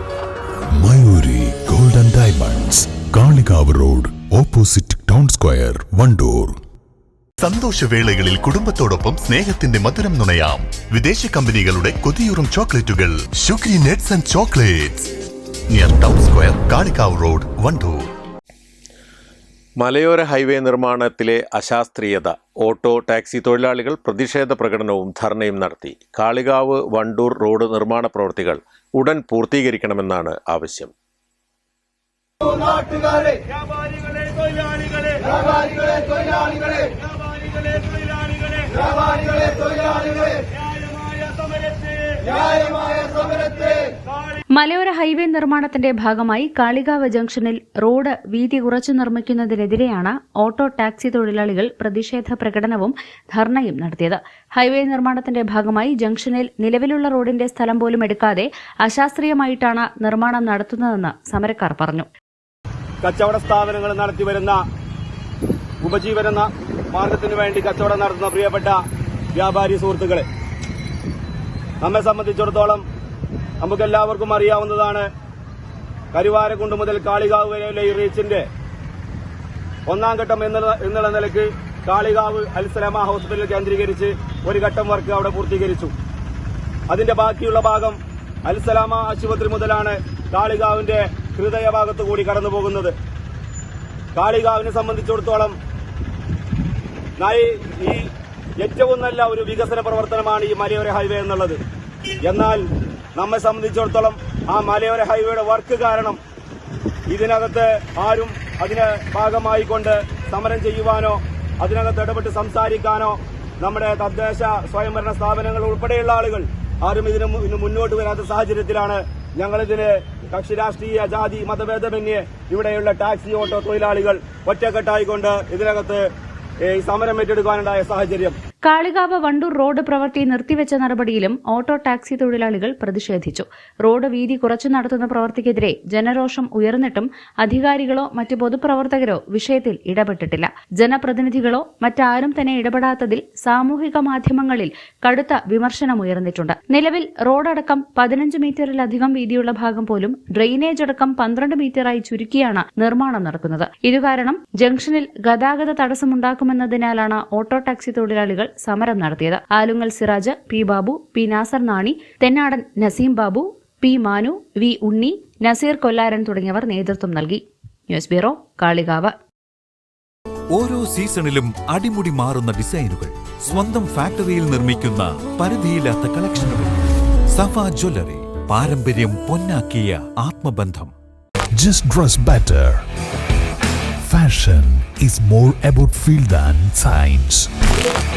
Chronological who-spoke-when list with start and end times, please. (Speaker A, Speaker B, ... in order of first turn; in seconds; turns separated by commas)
Speaker A: 0.7-6.5, Speaker B: 7.4-15.1, Speaker B: 15.7-18.1, Speaker C: 19.8-30.9, Speaker D: 32.7-44.0, Speaker E: 44.5-62.1, Speaker D: 63.0-64.6, Speaker D: 65.8-68.8, Speaker D: 69.3-70.2, Speaker D: 71.8-72.8, Speaker D: 73.6-75.1, Speaker D: 76.1-78.5, Speaker D: 79.9-85.9, Speaker D: 86.9-92.9, Speaker D: 94.1-95.5, Speaker D: 97.2-98.0, Speaker D: 98.6-101.6, Speaker D: 102.2-102.6, Speaker D: 103.1-106.2, Speaker D: 107.1-126.0, Speaker D: 126.6-128.4, Speaker E: 128.7-169.1, Speaker F: 170.5-176.8, Speaker F: 177.3-180.9, Speaker A: 181.6-182.8, Speaker A: 184.0-187.5